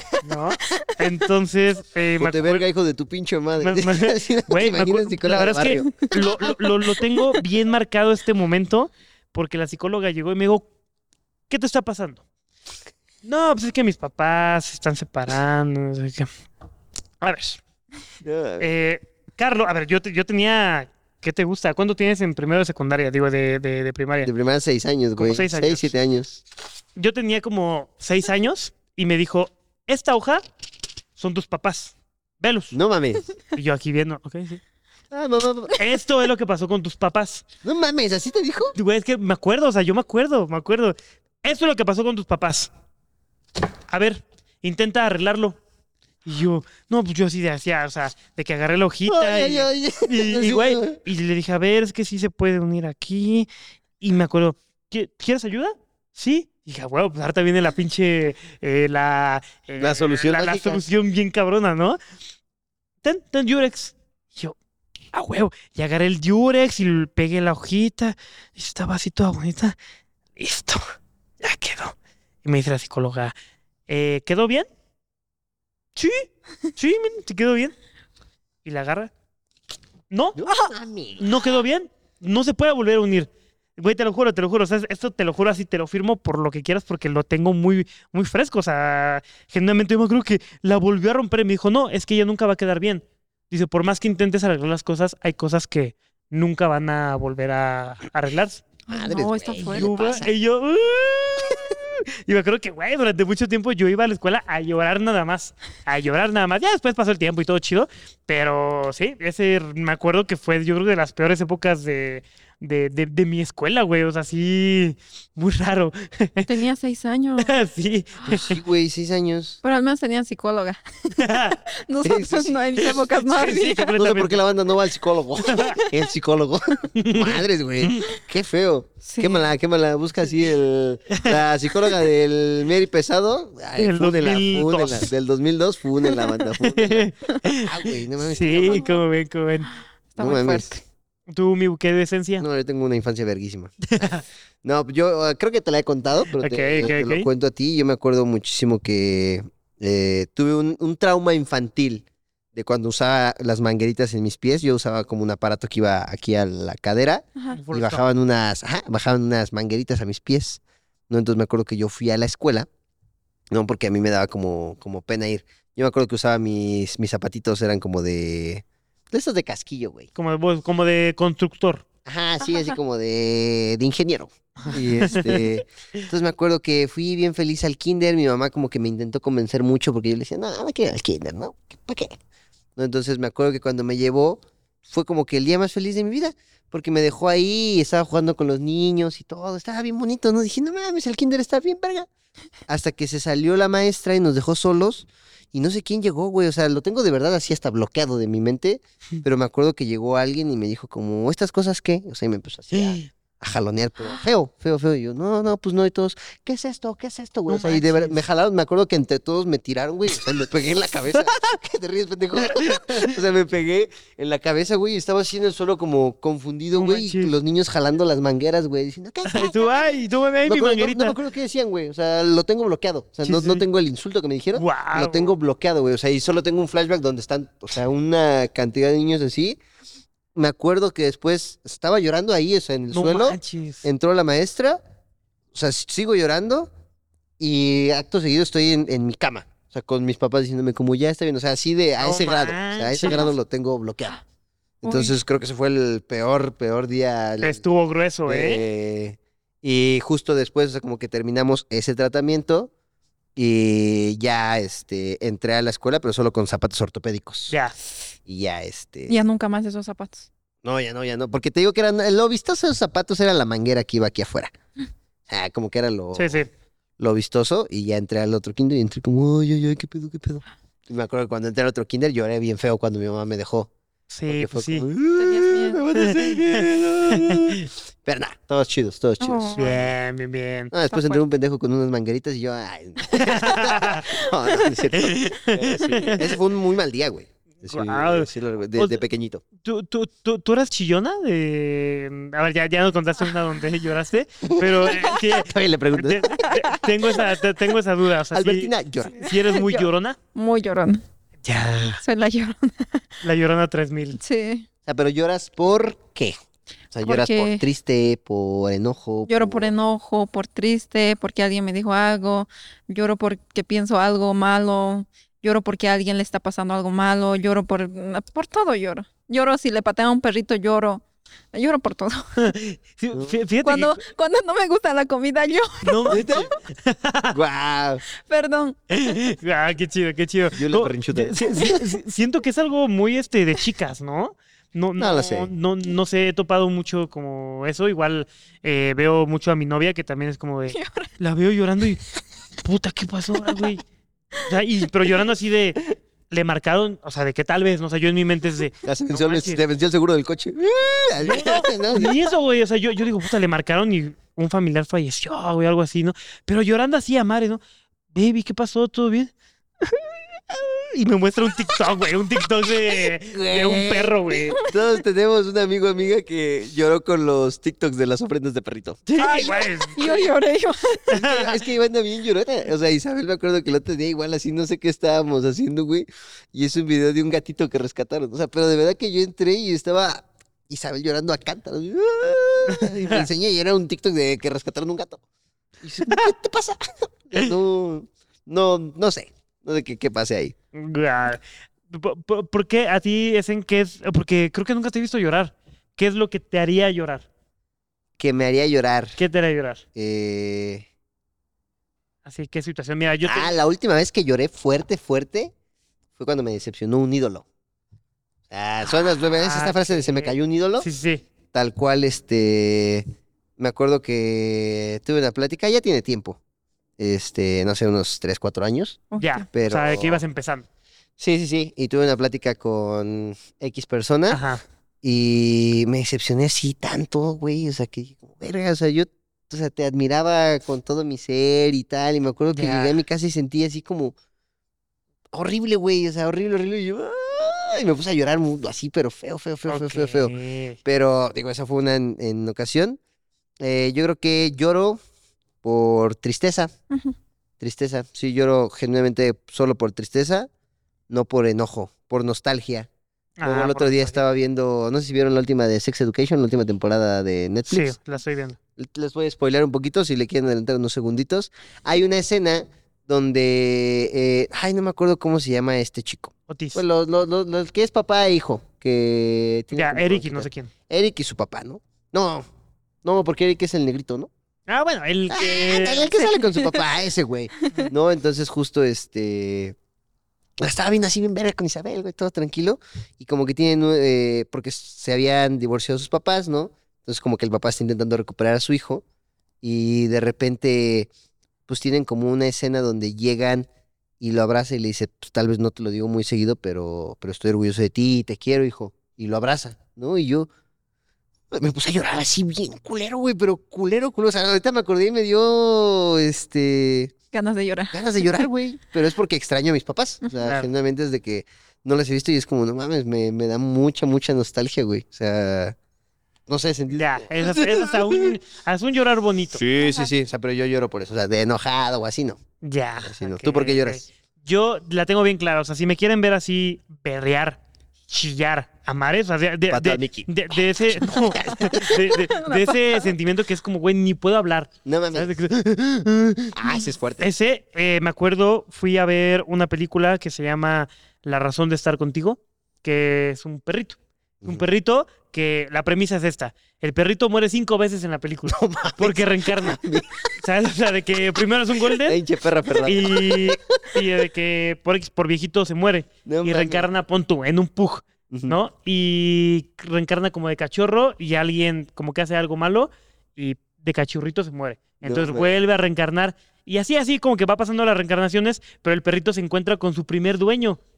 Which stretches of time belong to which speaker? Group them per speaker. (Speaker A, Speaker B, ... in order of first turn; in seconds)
Speaker A: 0.2-2.6, 3.6-10.7, 11.5-12.2, 13.2-16.3, 17.2-17.6, 18.6-24.3, 25.2-25.9, 26.9-30.4, 31.1-32.7, 33.5-34.6, 35.7-37.4, 38.7-42.7, 43.9-45.6, 46.2-53.5, 54.0-62.0, 63.0-64.5, 65.1-69.8, 70.4-70.8, 71.4-73.3, 73.9-74.7, 75.9-77.7, 78.6-79.1, 80.1-80.4, 81.2-98.6, 99.6-116.5, 117.4-118.6, 121.2-121.6, 123.2-124.4, 125.5-125.8, 127.0-128.1, 131.1-131.4, 133.8-135.1, 136.6-139.7, 141.3-142.4, 143.8-144.2, 146.4-147.3, 157.5-158.0, 170.1-171.8, 174.6-175.4, 202.7-203.1, 207.5-208.2, 212.4-213.1, 216.7-217.3, 219.3-221.2, 223.2-223.6, 224.5-225.3, 232.9-233.9, 242.0-243.3, 247.4-248.6, 257.5-257.8, 266.1-266.5, 274.1-274.9, 275.9-277.6, 279.5-280.7, 283.1-284.1, 284.9-286.3, 287.6-289.0, 289.6-300.2, 301.4-302.0, 303.2-304.2, 322.4-324.0, 325.8-327.4, 328.9-342.0, 342.6-343.8, 344.4-349.6, 351.2-357.6, 358.1-359.3, 360.9-364.6, 369.1-370.1, 371.1-371.4, 382.7-383.3, 390.7-397.2, 399.2-399.8, 402.2-403.5, 409.4-411.2, 419.2-420.6, 424.3-424.6, 432.5-433.0, 439.7-440.8, 453.4-454.2, 457.7-458.6, 466.5-466.8, 469.7-470.7, 474.7-476.1, 516.9-519.6, 522.6-536.5, 537.2-549.8, 550.4-552.2, 552.8-570.8
Speaker B: 2.2-6.0, 18.2-18.7, 24.2-26.4, 32.7-33.3, 35.1-35.7, 37.6-38.8, 49.0-51.0, 59.8-60.8, 80.3-81.2, 98.9-100.3, 118.3-119.6, 122.0-123.0, 123.9-138.9, 140.2-140.7, 142.4-144.1, 144.6-162.7, 163.5-170.1, 172.1-182.2, 182.8-192.1, 192.7-219.7, 220.4-229.6, 230.3-234.8, 235.5-236.7, 237.4-244.2, 244.8-247.6, 248.3-252.7, 253.3-257.6, 258.2-259.2, 260.6-264.5, 265.3-266.4, 267.0-273.7, 274.3-279.9, 280.7-289.4, 294.4-296.4, 298.3-299.2, 304.9-306.4, 306.9-309.7, 326.1-326.5, 327.3-328.0, 330.5-331.8, 335.0-335.5, 348.8-352.1, 363.3-369.5, 371.1-385.2, 385.8-390.5, 398.2-399.2, 399.9-400.9, 403.2-405.5, 406.2-407.4, 408.5-410.9, 411.5-413.0, 413.6-416.4, 417.0-420.2, 421.2-424.4, 425.0-434.1, 435.3-440.3, 440.8-443.0, 443.6-445.0, 445.6-446.7, 447.6-450.5, 451.1-452.9, 453.4-457.9, 458.8-472.5, 473.0-474.3, 475.3-479.8, 480.6-489.0, 489.6-491.1, 491.7-493.7, 494.2-500.5, 501.5-507.1, 507.9-515.8, 516.5-518.3, 519.5-522.4, 523.0-524.0, 529.7-532.0, 534.8-535.3, 536.5-537.3, 544.4-544.7, 548.5-550.3, 551.9-554.0, 556.2-556.9, 558.3-558.6, 565.0-565.5
Speaker C: 5.8-7.2, 80.5-80.7, 98.9-100.2, 116.5-117.5, 119.6-123.9, 125.7-126.0, 129.0-129.5, 138.4-139.0, 140.1-140.8, 244.8-245.1, 259.1-260.3, 275.1-275.8, 279.2-279.6, 280.8-281.2, 284.1-284.7, 296.4-297.3, 299.2-301.0, 302.0-303.2, 304.2-304.7, 307.0-307.6, 309.3-321.0, 321.5-322.5, 323.6-326.5, 328.2-328.8, 340.7-341.1, 369.3-371.3, 419.1-419.4, 446.9-447.1, 476.3-476.8, 507.3-508.4, 519.8-520.1, 531.5-533.1